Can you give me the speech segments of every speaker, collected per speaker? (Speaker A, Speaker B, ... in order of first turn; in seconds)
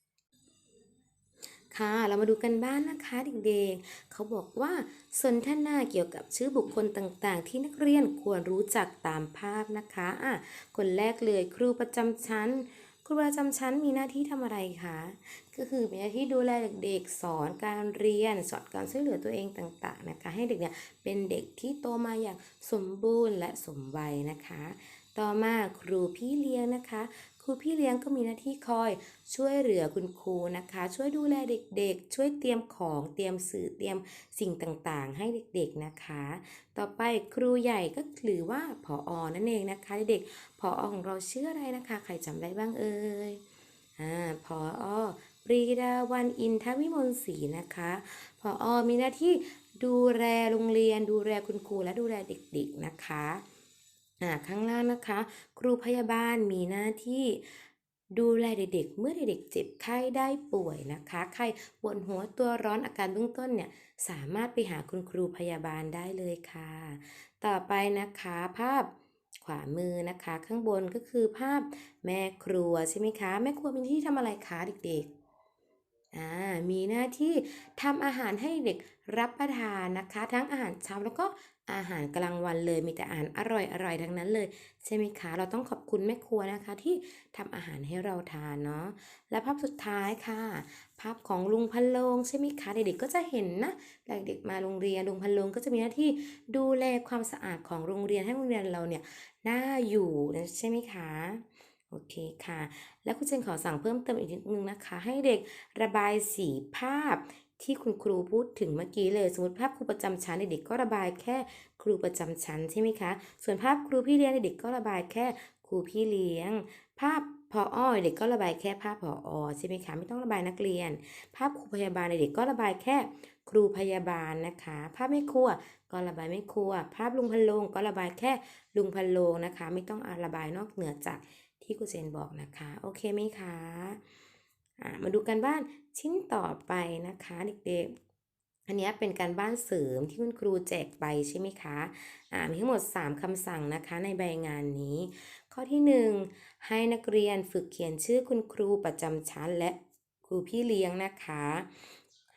Speaker A: 1.7-43.4, 44.0-53.4, 54.2-68.9, 69.4-75.1, 76.1-134.0, 134.8-137.9, 138.7-151.9